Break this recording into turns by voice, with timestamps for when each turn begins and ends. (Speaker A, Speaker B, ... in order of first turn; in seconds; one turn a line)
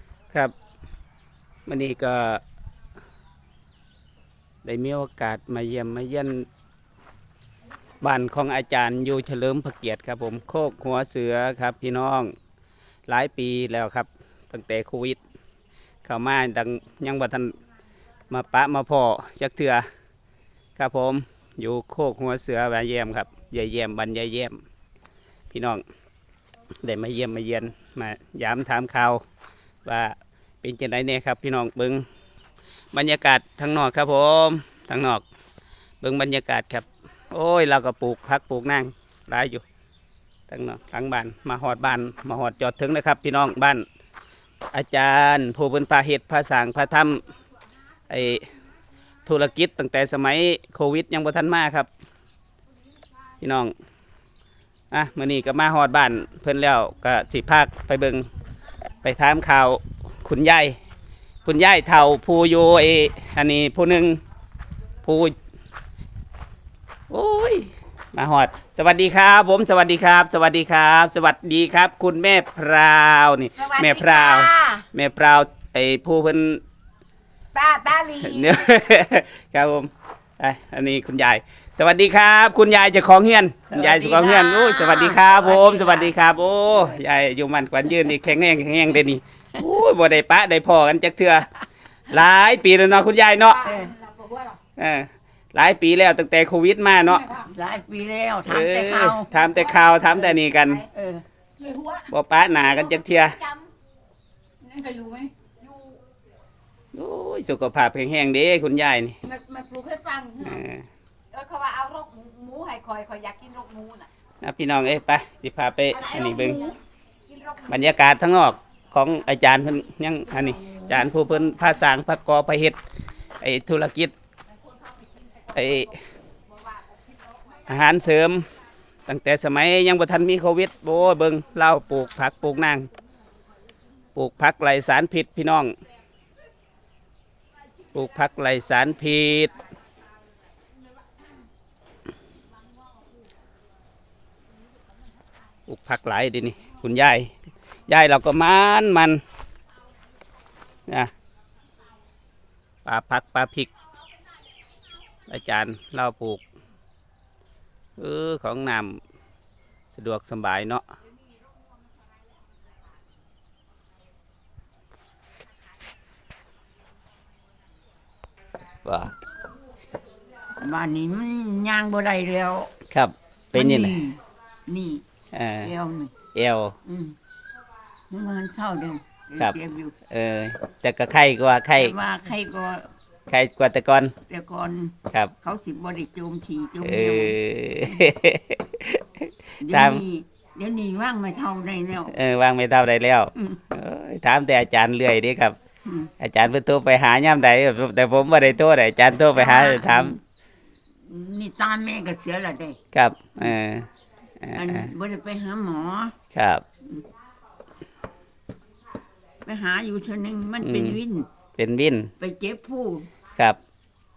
Speaker A: 1.7-2.4
Speaker A: 4.6-6.5
Speaker A: 8.0-12.3
Speaker A: 13.1-15.2
Speaker A: 16.1-17.6
Speaker A: 18.3-19.8
Speaker A: 20.8-24.6
Speaker A: 25.5-25.8
Speaker A: 26.8-29.2
Speaker A: 29.8-32.0
Speaker A: 32.9-35.2
Speaker A: 36.0-39.6
Speaker A: 40.5-43.8
Speaker A: 44.7-47.2
Speaker A: 48.1-48.5
Speaker A: 49.2-51.9
Speaker A: 53.4-53.7
Speaker A: 54.9-58.3
Speaker A: 59.0-60.8
Speaker A: 61.4-64.2
Speaker A: 65.0-65.3
Speaker A: 67.1-76.6
Speaker B: 73.6-74.7
Speaker B: 77.5-78.7
Speaker A: 78.2-91.5
Speaker C: 83.7-86.1
Speaker B: 84.8-85.0
Speaker A: 92.1-93.7
Speaker B: 93.6-94.6
Speaker C: 93.6-94.0
Speaker A: 94.8-97.3
Speaker B: 97.1-97.5
Speaker C: 97.3-99.3
Speaker A: 98.5-100.8
Speaker B: 99.3-100.4
Speaker C: 100.9-101.2
Speaker B: 101.6-102.1
Speaker A: 102.1-103.4
Speaker B: 102.6-103.7
Speaker B: 104.6-106.0
Speaker A: 106.9-109.2
Speaker B: 109.2-110.6
Speaker A: 110.4-110.8
Speaker B: 111.3-114.1
Speaker A: 114.4-116.7
Speaker B: 115.9-116.8
Speaker B: 117.3-117.7
Speaker A: 117.7-122.8
Speaker B: 120.4-120.9
Speaker A: 123.4-124.1
Speaker A: 125.5-126.0
Speaker A: 127.7-128.5
Speaker A: 129.1-132.9
Speaker A: 134.2-135.8
Speaker A: 137.9-139.5
Speaker A: 145.7-147.3
Speaker A: 147.9-149.2
Speaker A: 152.8-153.7
Speaker A: 155.3-156.4
Speaker A: 158.0-159.0
Speaker A: 159.9-160.8
Speaker A: 168.8-169.1
Speaker C: 170.6-172.7
Speaker A: 172.9-174.0
Speaker C: 173.5-175.0
Speaker A: 175.3-175.7
Speaker C: 175.6-176.2
Speaker A: 176.3-176.8
Speaker C: 176.8-177.2
Speaker C: 178.1-180.0
Speaker A: 180.1-181.9
Speaker C: 181.8-182.9
Speaker A: 183.3-184.1
Speaker C: 184.3-187.4
Speaker A: 185.1-185.3
Speaker A: 186.8-190.0
Speaker C: 189.6-192.2
Speaker A: 192.1-195.6
Speaker C: 193.3-193.6
Speaker C: 195.8-196.1
Speaker A: 196.2-200.2
Speaker C: 199.3-200.2
Speaker C: 201.0-202.8
Speaker A: 202.9-203.9
Speaker A: 204.4-204.9
Speaker C: 204.5-206.2
Speaker A: 206.3-206.6
Speaker C: 209.4-211.3
Speaker A: 210.6-211.0
Speaker A: 211.6-212.1
Speaker C: 212.2-213.1